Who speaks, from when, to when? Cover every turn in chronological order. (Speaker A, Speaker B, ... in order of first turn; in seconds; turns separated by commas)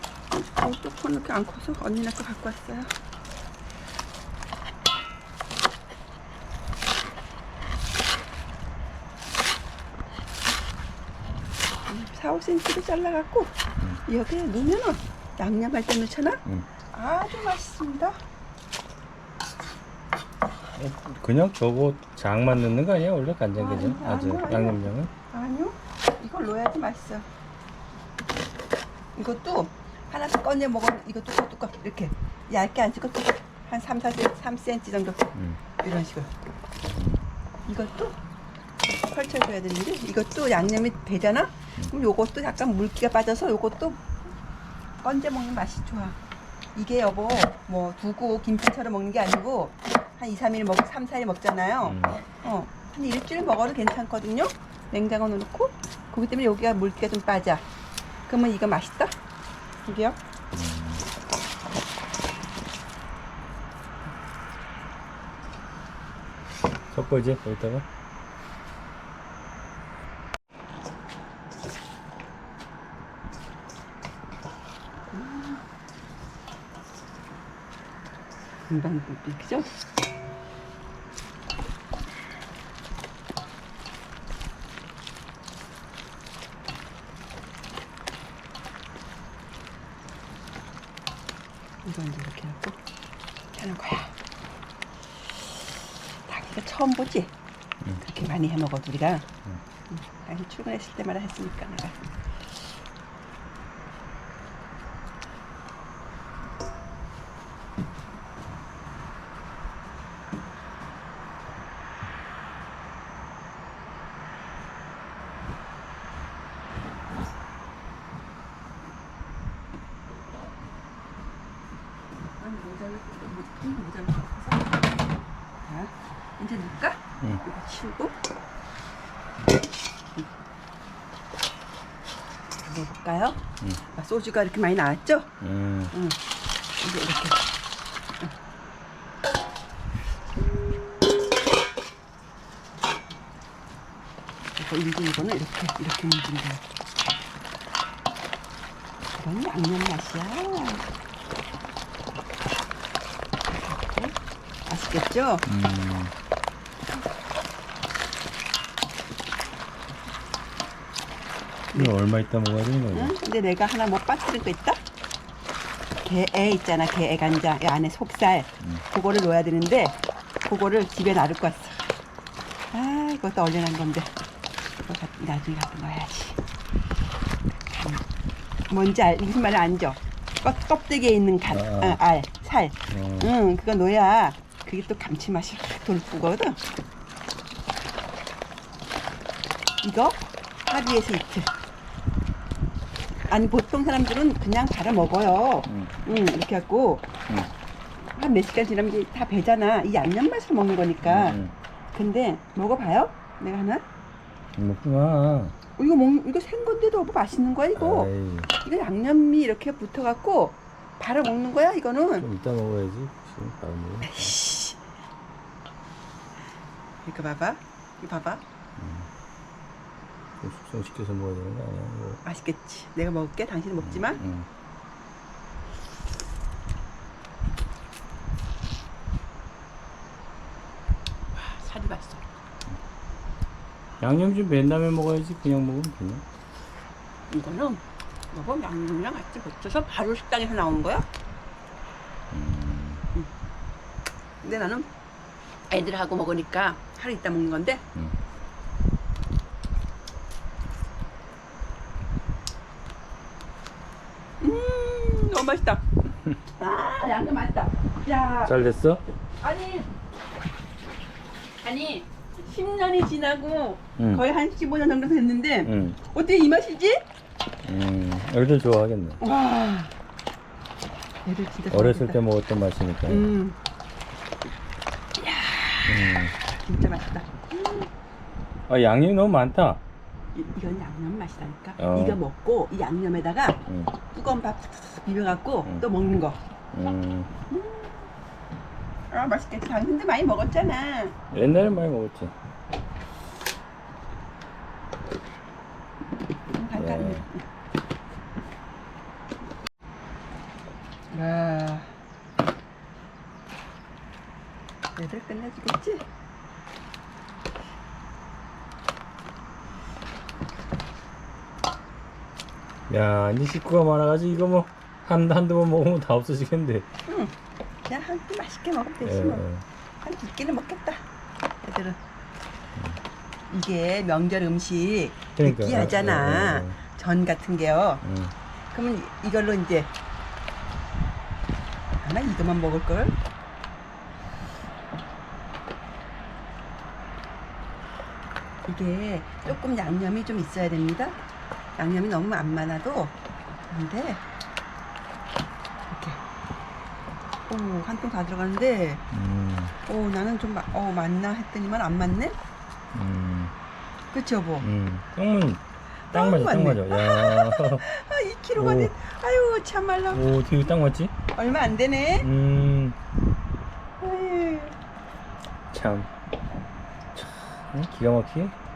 Speaker A: 0.3-2.9, Speaker A: 11.9-13.5, Speaker A: 14.0-18.2, Speaker B: 20.7-25.1, Speaker A: 23.6-27.2, Speaker A: 29.1-36.3, Speaker B: 36.9-37.2, Speaker A: 37.7-38.2, Speaker A: 38.9-44.0, Speaker A: 45.0-46.2, Speaker A: 46.7-57.6, Speaker B: 51.8-52.2, Speaker A: 58.3-59.1, Speaker A: 59.8-60.2, Speaker B: 60.5-61.0, Speaker B: 66.9-67.8, Speaker A: 75.1-75.6, Speaker A: 78.7-79.7, Speaker A: 91.8-92.8, Speaker A: 93.5-94.1, Speaker A: 96.2-97.3, Speaker A: 98.0-99.3, Speaker A: 99.9-102.0, Speaker A: 122.4-124.8, Speaker A: 125.7-128.2, Speaker A: 132.6-135.3, Speaker B: 135.4-135.9, Speaker A: 135.9-136.2, Speaker A: 136.8-137.4, Speaker A: 144.6-146.6, Speaker A: 149.1-150.8, Speaker A: 153.5-154.2, Speaker A: 154.7-155.4, Speaker B: 155.5-156.1, Speaker B: 161.7-163.1, Speaker A: 162.9-164.8, Speaker A: 166.0-171.8, Speaker A: 172.7-174.1, Speaker A: 174.8-176.4, Speaker A: 177.7-178.0, Speaker A: 178.7-186.6, Speaker B: 181.5-182.0, Speaker B: 182.9-183.3, Speaker A: 189.8-191.5, Speaker A: 193.3-197.1, Speaker B: 195.7-195.9, Speaker A: 198.0-201.4, Speaker B: 201.1-201.5, Speaker A: 201.9-203.8, Speaker B: 204.6-205.5, Speaker A: 205.8-212.2, Speaker B: 207.8-208.5, Speaker B: 212.2-214.3, Speaker A: 214.0-214.8, Speaker A: 217.0-218.4, Speaker B: 218.8-219.1, Speaker B: 220.4-222.2, Speaker A: 222.2-224.2, Speaker B: 223.8-224.5, Speaker A: 231.3-232.2, Speaker B: 234.0-236.2, Speaker A: 237.3-241.1, Speaker B: 242.3-243.0, Speaker A: 244.4-244.9, Speaker A: 245.7-247.8, Speaker A: 254.4-255.8, Speaker A: 256.6-258.6, Speaker B: 258.4-259.0, Speaker A: 259.4-259.9, Speaker A: 261.6-267.0, Speaker B: 264.0-264.2, Speaker B: 265.6-266.0, Speaker B: 267.6-269.2, Speaker A: 269.2-269.9, Speaker A: 271.2-272.2, Speaker B: 271.7-273.3, Speaker A: 273.1-273.6, Speaker A: 275.2-277.9, Speaker B: 275.9-276.3, Speaker B: 278.7-279.8, Speaker A: 280.3-286.4, Speaker B: 281.8-282.2, Speaker B: 283.7-283.9, Speaker B: 286.7-287.3, Speaker A: 287.5-287.9, Speaker A: 289.1-291.1, Speaker B: 291.3-292.3, Speaker A: 296.5-297.4, Speaker B: 296.8-297.2, Speaker A: 301.1-301.9, Speaker A: 304.9-306.0, Speaker B: 312.9-316.9, Speaker A: 317.1-317.3, Speaker A: 317.9-319.4, Speaker B: 319.0-319.6, Speaker A: 320.0-321.0, Speaker A: 321.6-322.0, Speaker B: 322.8-323.0, Speaker A: 323.5-328.0, Speaker B: 325.4-326.8, Speaker B: 328.0-328.3, Speaker A: 328.7-329.9, Speaker A: 332.0-333.1, Speaker A: 338.7-341.1, Speaker A: 341.8-343.1, Speaker A: 343.7-344.2, Speaker A: 345.9-346.2, Speaker A: 347.5-349.0, Speaker B: 349.1-349.7, Speaker A: 349.9-352.4, Speaker B: 352.9-353.5, Speaker A: 354.1-354.7, Speaker B: 354.6-357.8, Speaker A: 356.1-360.2, Speaker B: 358.6-358.9, Speaker B: 360.1-361.1, Speaker A: 361.3-362.3, Speaker B: 362.2-362.9, Speaker A: 364.0-364.7, Speaker B: 365.7-366.1, Speaker B: 367.1-368.5